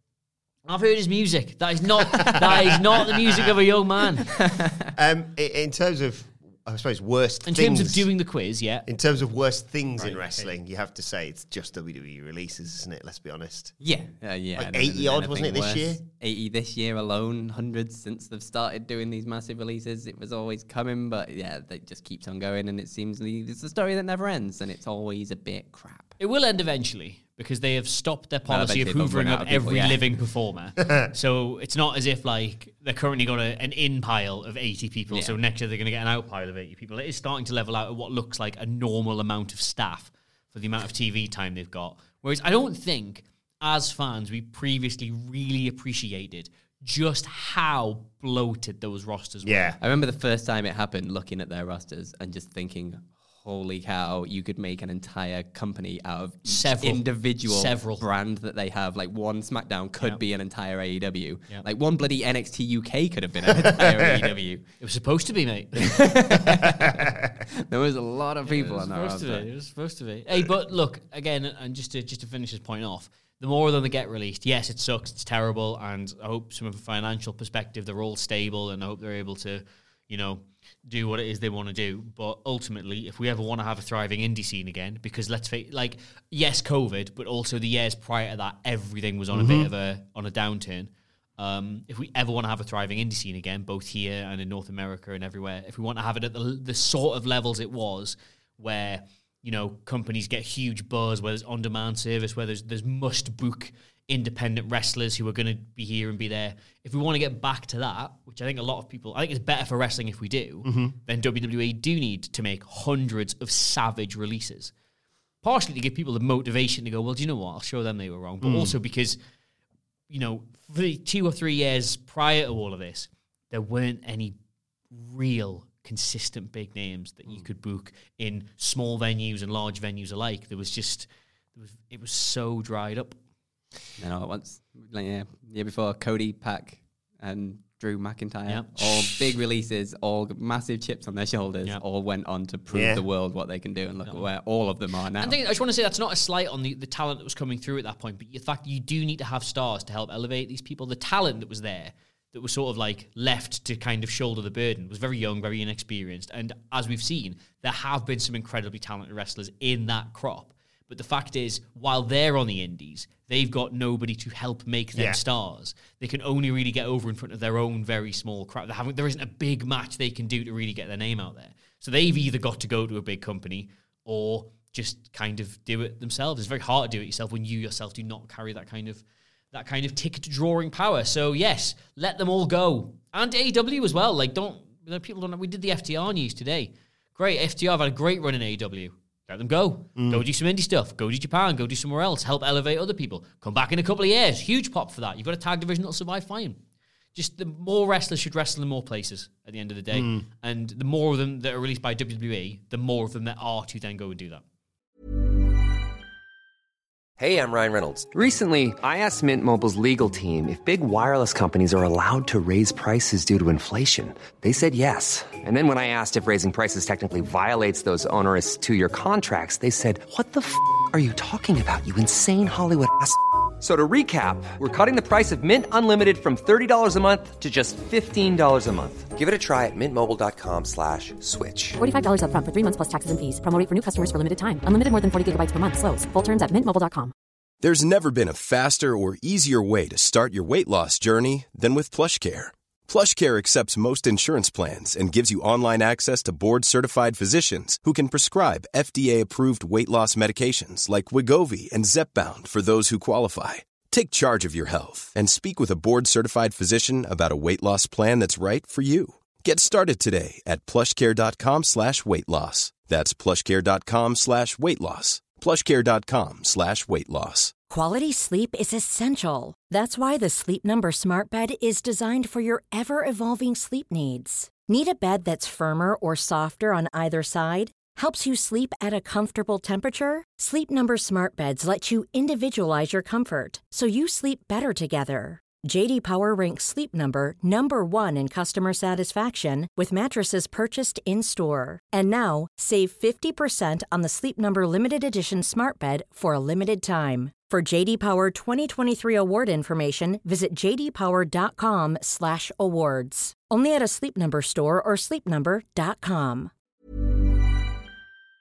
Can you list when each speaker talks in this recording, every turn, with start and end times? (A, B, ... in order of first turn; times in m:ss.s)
0:00.6-0:04.3 A
0:02.1-0:03.5 B
0:04.3-0:04.9 C
0:04.9-0:08.1 B
0:07.4-0:08.8 A
0:08.9-0:13.7 B
0:10.0-0:10.5 A
0:13.8-0:26.1 C
0:14.6-0:16.0 B
0:26.2-0:49.7 A
0:28.5-0:30.0 C
0:35.1-0:35.4 C
0:49.4-0:49.8 B
0:49.8-1:04.6 C
0:56.4-0:58.0 A
1:03.7-1:04.1 B
1:04.8-1:06.5 A
1:05.8-1:09.4 C
1:08.4-1:54.7 A
1:29.3-1:29.7 B
1:50.6-1:51.0 B
1:55.4-1:59.2 A
1:58.4-1:58.7 B
2:00.1-2:04.4 A
2:04.9-2:13.2 A
2:14.0-2:25.4 C
2:18.5-2:19.2 A
2:22.7-2:23.0 B
2:25.2-3:16.6 A
2:44.9-2:45.2 B
3:10.0-3:10.2 B
3:17.1-3:24.4 A
3:19.9-3:20.2 B
3:27.2-3:51.8 D
3:51.8-3:57.1 E
3:57.6-4:27.5 F
4:27.7-5:06.5 G